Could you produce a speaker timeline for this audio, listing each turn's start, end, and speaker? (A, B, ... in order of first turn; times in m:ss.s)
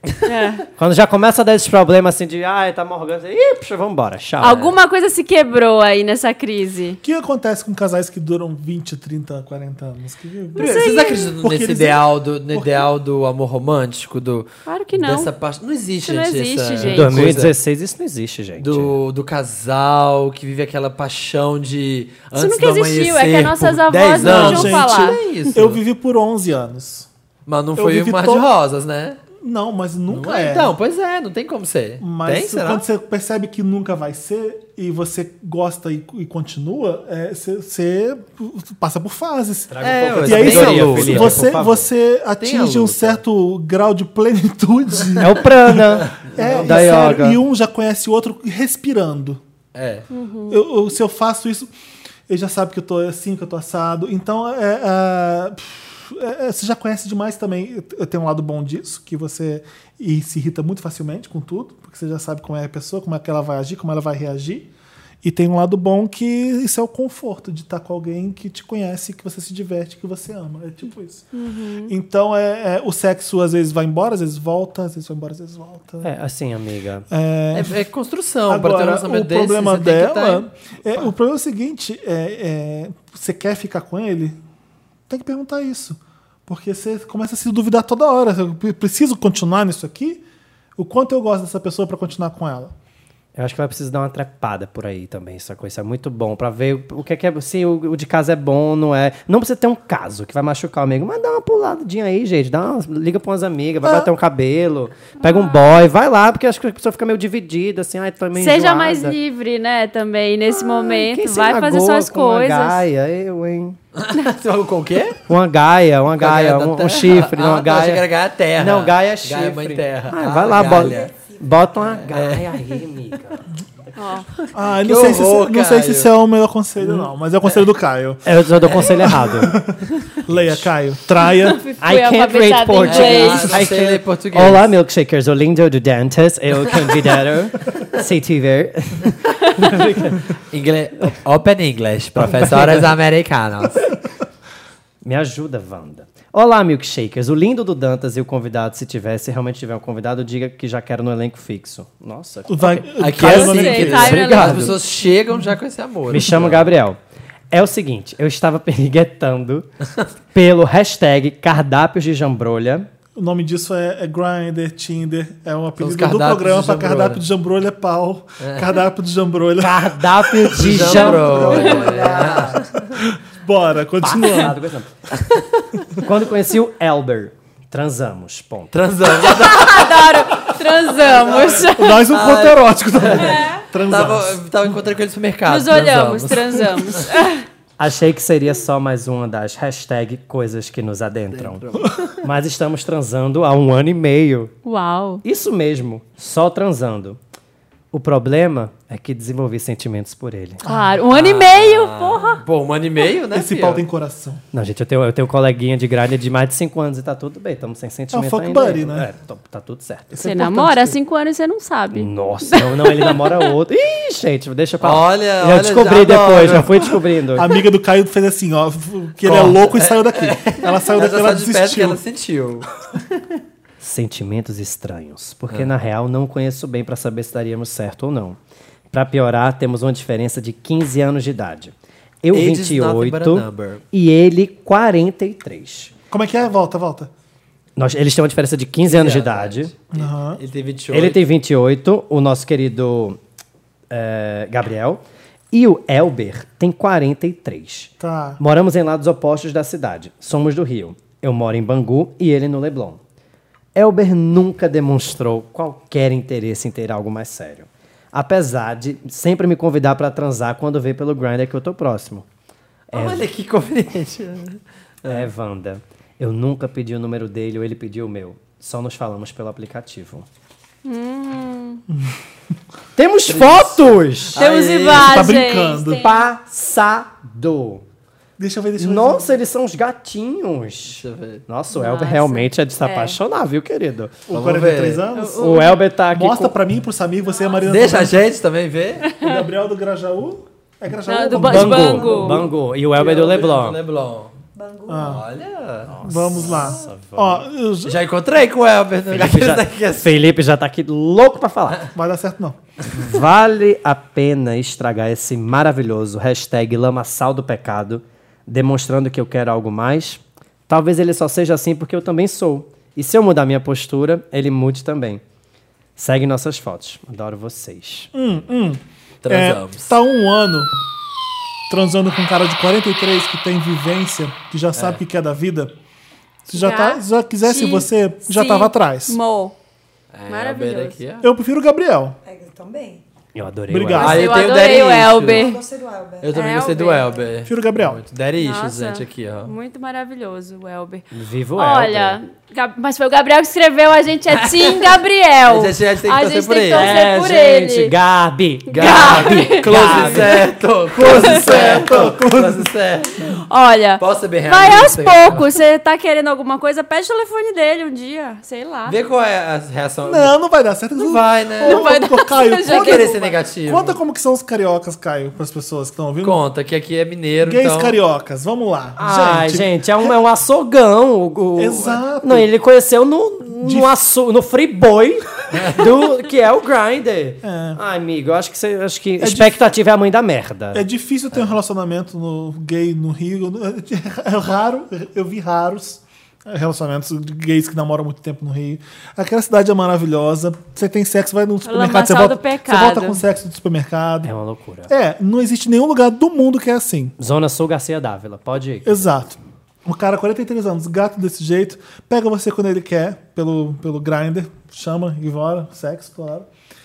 0:00.2-0:00.6 A
0:00.8-0:04.6 B
0:04.4-0:07.0 A
0:04.5-0:04.7 C
0:07.0-0:12.9 D
0:10.5-0:11.3 A
0:10.5-0:17.5 C
0:14.7-0:15.3 A
0:16.0-0:17.3 A
0:16.8-0:19.0 B
0:18.6-0:25.8 C
0:22.4-0:25.2 A
0:24.2-0:27.1 D
0:27.5-0:29.2 C
0:27.8-0:28.5 D
0:29.4-0:30.7 D
0:30.1-0:32.8 C
0:32.0-0:49.4 D
0:39.7-0:41.9 B
0:39.8-0:41.5 C
0:42.4-0:43.2 C
0:45.2-0:47.4 B
0:46.0-0:47.2 C
0:49.7-0:50.0 C
0:50.1-0:50.6 A
0:50.5-0:51.7 D
0:52.3-1:04.7 D
1:05.2-1:11.3 D
1:11.3-1:11.9 A
1:11.9-1:16.1 D
1:16.0-1:17.0 B
1:17.1-1:17.8 D
1:17.5-1:20.4 C
1:18.5-1:24.4 D
1:25.1-1:30.2 D
1:30.8-1:32.7 D
1:33.4-1:49.2 B
1:43.8-1:44.1 D
1:45.2-1:45.6 A
1:48.3-1:52.8 A
1:50.8-1:53.8 B
1:54.0-1:55.2 C
1:55.3-1:58.0 B
1:56.1-2:01.1 C
1:58.6-2:03.4 B
2:00.5-2:01.5 E
2:02.1-2:02.5 C
2:04.0-2:04.3 A
2:04.4-2:06.1 C
2:04.5-2:11.6 D
2:08.2-2:09.6 B
2:08.7-2:09.1 C
2:10.3-2:10.6 B
2:11.3-2:13.6 A
2:11.8-2:20.3 B
2:12.8-2:14.7 C
2:20.5-2:23.9 C
2:22.2-2:22.8 D
2:25.0-2:34.8 B
2:32.5-2:34.2 D
2:33.0-2:36.7 C
2:33.2-2:34.8 A
2:36.1-2:37.0 B
2:37.5-2:39.7 B
2:40.3-2:42.9 B
2:43.2-2:54.6 D
2:45.8-2:47.2 C
2:48.4-2:48.8 C
2:49.6-2:52.5 B
2:50.5-2:52.6 C
2:50.9-2:51.7 A
2:54.0-2:54.9 B
2:55.2-2:55.6 C
2:56.0-2:58.7 B
2:58.7-3:00.5 C
2:59.2-3:02.1 A
3:01.0-3:07.1 C
3:01.0-3:04.4 D
3:03.2-3:03.6 A
3:05.4-3:07.4 A
3:07.8-3:11.6 B
3:11.3-3:12.1 C
3:12.2-3:14.5 B
3:14.6-3:15.2 A
3:15.2-3:17.2 B
3:17.9-3:20.6 B
3:20.6-3:21.0 D
3:20.6-3:22.4 A
3:21.1-3:23.8 C
3:23.3-3:24.4 D
3:24.5-3:30.2 B
3:28.1-3:29.1 D
3:30.1-3:31.0 D
3:30.2-3:33.5 A
3:31.9-3:37.5 B
3:34.8-3:37.0 C
3:37.3-3:42.0 D
3:39.2-3:42.7 C
3:43.8-3:48.4 B
3:48.9-3:55.9 B
3:52.3-3:53.8 C
3:56.1-3:57.1 D
3:57.8-3:59.7 B
3:58.8-4:01.2 C
3:59.9-4:00.4 D
4:00.9-4:03.2 B
4:03.9-4:13.0 B
4:08.0-4:08.4 D
4:13.8-4:22.2 B
4:22.9-4:25.3 C
4:22.9-4:23.2 B
4:25.1-4:30.2 B
4:30.8-4:31.8 A
4:31.9-4:32.1 D
4:33.0-4:34.4 B
4:33.3-4:35.4 C
4:34.4-4:36.3 A
4:34.9-4:36.0 D
4:35.9-4:37.8 B
4:38.4-4:39.3 D
4:38.8-4:44.2 B
4:40.9-4:41.4 C
4:41.7-4:43.2 A
4:44.3-4:45.5 D
4:44.3-4:45.0 C
4:45.1-4:45.8 A
4:45.4-4:46.5 B
4:46.1-4:48.3 D
4:47.3-4:47.6 E
4:47.6-4:49.1 C
4:49.1-4:49.4 A
4:49.2-4:52.4 D
4:51.0-4:52.4 A
4:51.3-4:53.8 B
4:51.7-4:52.4 E
4:52.9-4:54.3 C
4:54.5-4:55.2 E
4:54.9-4:55.2 D
4:54.9-4:56.6 C
4:55.9-4:57.4 B
4:56.0-4:58.0 D
4:57.8-5:00.1 C
4:59.1-5:01.9 B
5:01.9-5:02.6 D
5:02.9-5:15.2 B
5:16.0-5:18.1 B
5:18.1-5:20.7 D
5:19.2-5:19.9 C
5:21.7-5:25.7 D
5:24.8-5:25.0 C
5:26.5-5:29.2 D
5:26.5-5:29.6 A
5:30.1-5:31.3 C
5:30.3-5:31.0 A
5:31.2-5:32.2 D
5:32.2-5:33.0 E
5:33.3-5:34.2 B
5:33.7-5:34.4 D
5:34.0-5:35.5 C
5:34.0-5:35.6 A
5:34.6-5:36.6 E
5:36.2-5:39.5 C
5:36.3-5:37.2 A
5:37.4-5:38.0 D
5:38.4-5:47.9 A
5:41.1-5:42.2 B
5:44.3-5:46.9 C
5:46.7-5:50.4 B
5:48.7-5:50.4 A
5:48.7-5:53.2 C
5:51.0-5:52.7 D
5:51.0-5:51.7 A
5:53.3-5:59.0 A
5:54.0-5:55.5 C
5:58.8-6:00.4 C
6:00.0-6:06.4 D
6:01.0-6:01.8 C
6:01.6-6:03.2 A
6:02.6-6:04.0 C
6:06.2-6:08.0 C
6:07.4-6:10.1 D
6:09.0-6:20.8 B
6:11.6-6:12.5 D
6:13.6-6:13.9 D
6:15.5-6:15.8 C
6:17.4-6:17.8 D
6:19.2-6:19.6 D
6:20.7-6:34.3 D
6:31.6-6:33.2 A
6:34.2-6:34.9 B
6:34.9-6:37.1 D
6:37.2-6:39.1 B
6:38.8-6:46.5 D